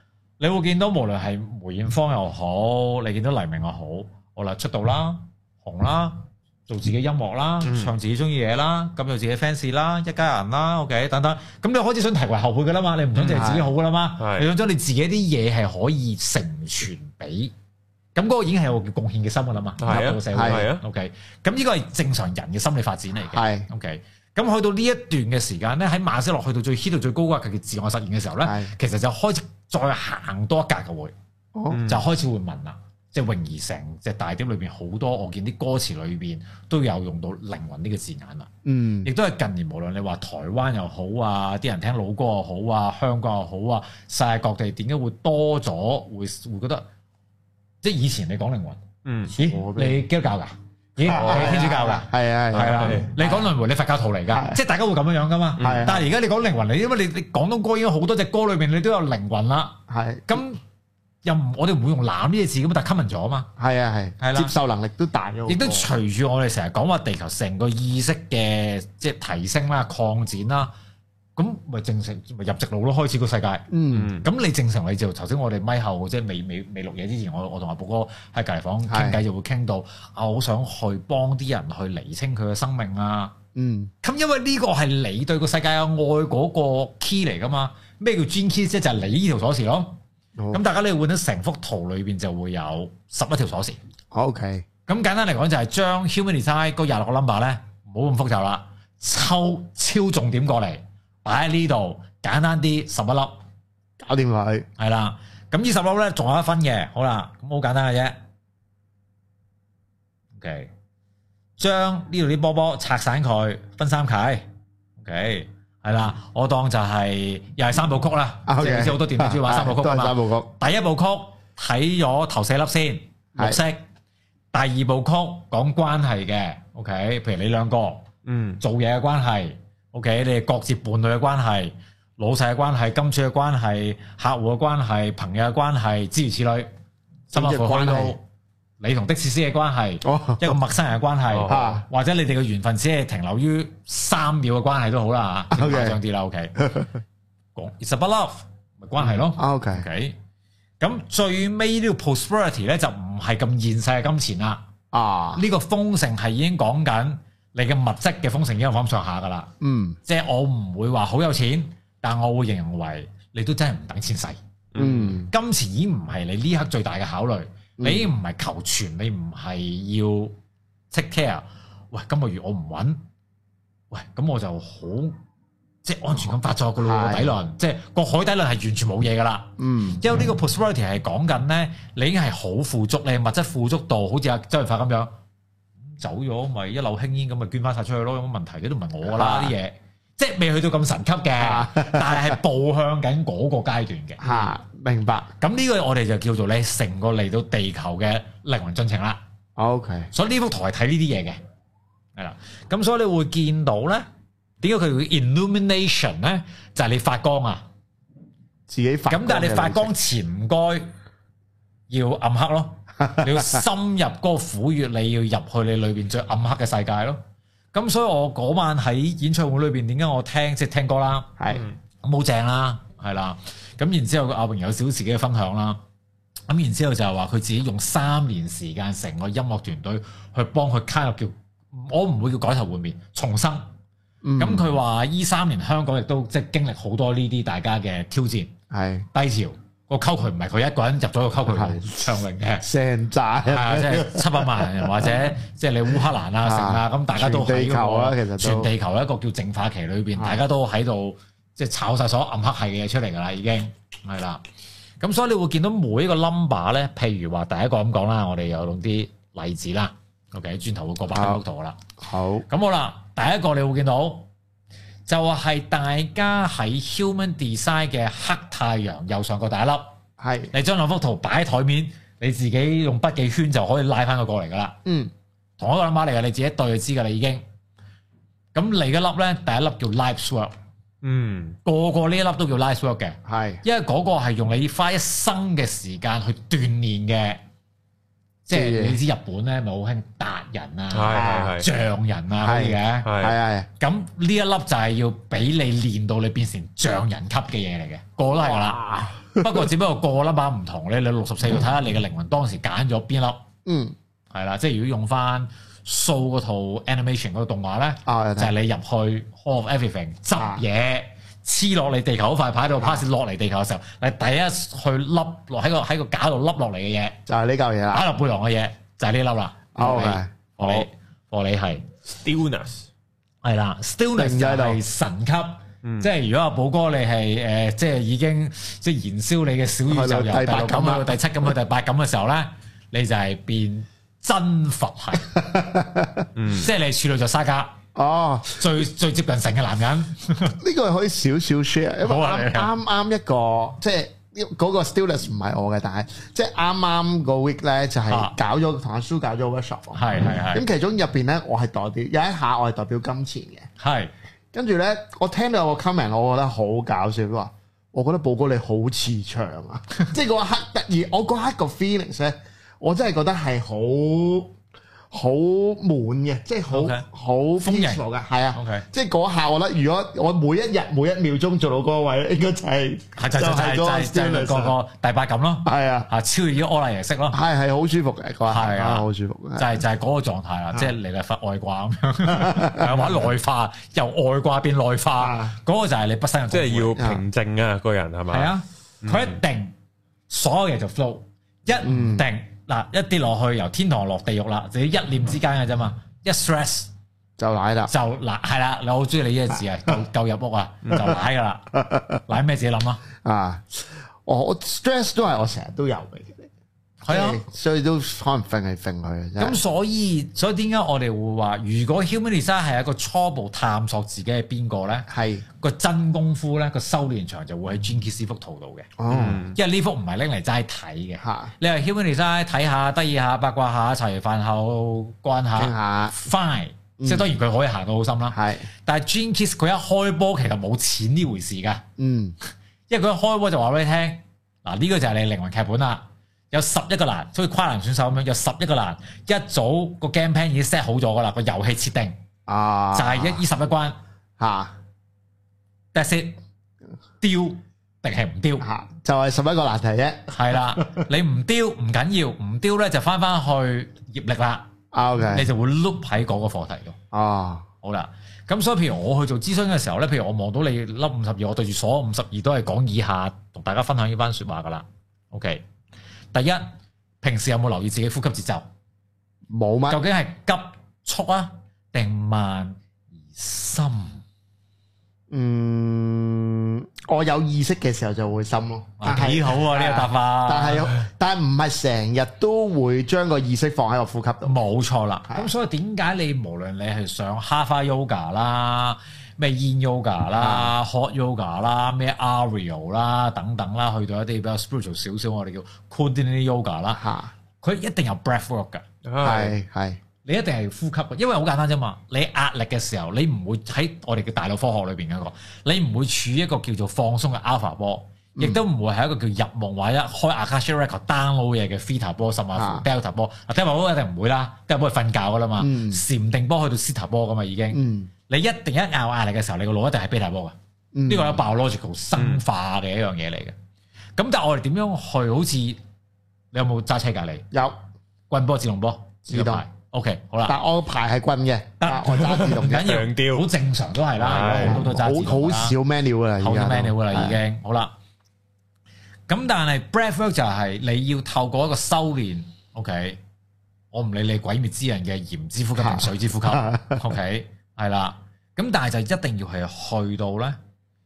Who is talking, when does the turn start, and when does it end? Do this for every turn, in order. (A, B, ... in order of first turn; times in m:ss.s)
0:00.4-0:17.5 A
0:07.6-0:07.9 B
0:13.2-0:13.5 B
0:13.3-0:13.7 C
0:14.2-0:14.5 B
0:18.1-0:31.1 A
0:19.8-0:20.8 B
0:19.9-0:20.7 C
0:23.3-0:23.7 C
0:28.4-0:28.7 C
0:31.5-0:31.8 C
0:31.7-0:32.0 B
0:31.8-0:38.5 A
0:38.6-0:39.1 C
0:39.0-0:46.8 A
0:47.8-1:00.6 A
0:49.0-0:49.3 B
0:49.4-0:50.0 C
0:51.0-0:53.5 C
0:51.1-0:51.6 B
0:52.6-0:53.1 B
0:54.3-0:54.6 C
0:55.6-0:56.0 B
0:55.6-0:56.0 C
0:59.9-1:00.4 C
1:01.2-1:03.5 A
1:03.6-1:05.9 C
1:04.2-1:04.5 A
1:05.5-1:10.7 A
1:11.4-1:23.3 A
1:13.7-1:14.1 C
1:13.9-1:14.2 B
1:18.9-1:19.2 C
1:23.5-1:23.9 C
1:24.0-1:30.0 A
1:30.4-1:30.6 C
1:30.5-1:33.8 A
1:34.1-1:34.6 C
1:34.9-1:43.4 A
1:44.0-1:44.6 C
1:44.8-1:48.2 A
1:50.3-1:50.7 A
1:51.6-1:54.4 A
1:55.0-2:03.8 A
1:58.4-2:00.5 C
2:04.5-2:08.0 A
2:08.2-2:08.6 B
2:08.6-2:16.7 A
2:17.3-2:18.2 A
2:17.3-2:18.1 C
2:18.8-2:26.7 A
2:20.0-2:20.6 C
2:21.3-2:21.8 B
2:21.4-2:21.8 C
2:25.5-2:26.0 C
2:26.6-2:26.9 C
2:27.5-2:30.2 A
2:29.0-2:29.8 C
2:30.8-2:34.6 A
2:34.9-2:35.4 C
2:35.4-2:39.5 A
2:39.6-2:40.0 C
2:40.0-2:44.4 A
2:44.7-2:45.2 B
2:44.8-2:45.3 C
2:45.2-2:50.3 A
2:47.8-2:48.1 C
2:50.9-2:53.0 A
2:53.9-2:55.2 A
2:55.8-3:05.1 A
2:56.8-2:57.3 C
2:59.6-3:00.0 C
3:05.9-3:14.5 A
3:09.0-3:09.5 C
3:11.4-3:12.4 C
3:14.2-3:15.3 C
3:15.4-3:19.2 A
3:19.6-3:20.1 C
3:20.1-3:21.4 A
3:22.2-3:24.1 A
3:24.6-3:27.6 A
3:28.7-3:29.9 C
3:29.1-3:30.9 A
3:31.9-3:37.2 A
3:33.0-3:33.6 C
3:37.7-3:45.8 A
3:41.4-3:41.6 C
3:46.5-3:53.7 A
3:54.2-3:54.7 C
3:54.4-3:58.5 A
3:58.7-3:59.0 C
3:59.1-4:02.6 A
4:01.4-4:02.0 C
4:02.6-4:05.1 C
4:03.4-4:14.4 A
4:06.4-4:08.7 C
4:10.2-4:10.4 C
4:15.0-4:21.8 A
4:21.1-4:21.4 C
4:22.0-4:22.4 C
4:22.5-4:24.3 A
4:25.0-4:29.9 A
4:30.2-4:30.5 C
4:30.5-4:34.8 A
4:34.8-4:35.1 C
4:35.6-4:37.4 A
4:38.5-4:40.5 A
4:41.0-4:41.6 B
4:41.6-4:47.4 A
4:43.2-4:43.6 C
4:48.4-4:53.1 A
4:48.5-4:49.0 C
4:50.9-4:51.7 B
4:51.1-4:51.6 C
4:52.4-4:53.7 C
4:53.0-4:53.4 B
4:53.8-4:58.8 A
4:58.4-4:59.7 C
4:59.3-5:03.4 A
5:03.6-5:03.9 C
5:04.3-5:17.2 A
5:08.0-5:08.5 C
5:10.4-5:10.6 C
5:17.3-5:18.0 C
5:17.9-5:21.8 A
5:19.7-5:20.9 C
5:22.0-5:22.9 B
5:23.4-5:35.3 A
5:24.2-5:24.8 C
5:25.8-5:26.1 B
5:29.9-5:31.1 C
5:35.3-5:36.3 C
5:36.4-5:36.7 B
5:36.5-5:37.8 A
5:37.9-5:38.7 C
5:38.6-5:40.6 A
5:40.6-5:53.7 C
5:42.0-5:42.7 A
5:49.9-5:50.6 A
5:53.8-5:54.1 A
5:54.5-6:04.5 C
6:05.1-6:14.8 C
6:06.7-6:07.0 A
6:07.6-6:08.9 A
6:13.2-6:17.4 A
6:15.6-6:16.1 C
6:17.3-6:19.7 C
6:18.4-6:27.0 A
6:22.3-6:23.2 C
6:25.2-6:25.5 C
6:26.5-6:28.5 B
6:27.0-6:27.2 C
6:28.3-6:29.7 A
6:29.0-6:29.4 B
6:30.3-6:36.9 A
6:31.8-6:32.2 C
6:37.4-6:37.9 C
6:37.9-6:41.7 A
6:41.8-6:42.2 C
6:42.3-6:43.0 A
6:43.2-6:46.5 C
6:47.0-6:47.4 A
6:47.1-6:49.6 C
6:49.4-6:58.9 A
6:55.1-6:55.4 C
6:59.0-6:59.4 C
6:59.1-6:59.6 B
6:59.4-7:11.8 A
7:01.2-7:01.5 C
7:05.6-7:06.2 C
7:07.0-7:07.3 C
7:08.3-7:08.7 C
7:12.0-7:12.3 C
7:12.9-7:22.2 A
7:22.5-7:23.4 C
7:22.9-7:24.0 A
7:24.4-7:24.7 C
7:25.9-7:26.4 A
7:27.2-7:28.6 A
7:28.6-7:31.0 C
7:30.3-7:34.7 A
7:34.9-7:35.5 C
7:35.3-7:37.0 A
7:37.1-7:37.7 C
7:37.8-7:45.6 A
7:46.3-7:48.6 A
7:49.5-7:50.0 C
7:49.9-7:54.2 A
7:55.3-8:04.6 C
7:59.0-8:00.9 A
8:04.4-8:17.0 A
8:10.4-8:10.7 C
8:16.9-8:17.3 C
8:17.6-8:18.8 A
8:19.0-8:19.5 B
8:19.2-8:20.0 C
8:20.2-8:40.6 A
8:32.5-8:32.8 C
8:35.6-8:36.0 C
8:37.7-8:38.1 C
8:40.9-8:41.4 C
8:41.1-8:43.6 A
8:42.2-8:42.4 B
8:44.2-8:45.8 A
8:46.5-8:47.5 A
8:47.5-8:47.8 C
8:48.3-8:50.6 A
8:49.2-8:49.6 C
8:50.4-8:52.9 C
8:51.8-8:55.8 A
8:52.3-8:53.5 B
8:54.2-8:54.9 B
8:54.4-8:57.4 C
8:56.4-8:57.9 A
8:59.3-9:03.2 A
9:03.9-9:10.6 A
9:05.8-9:07.0 C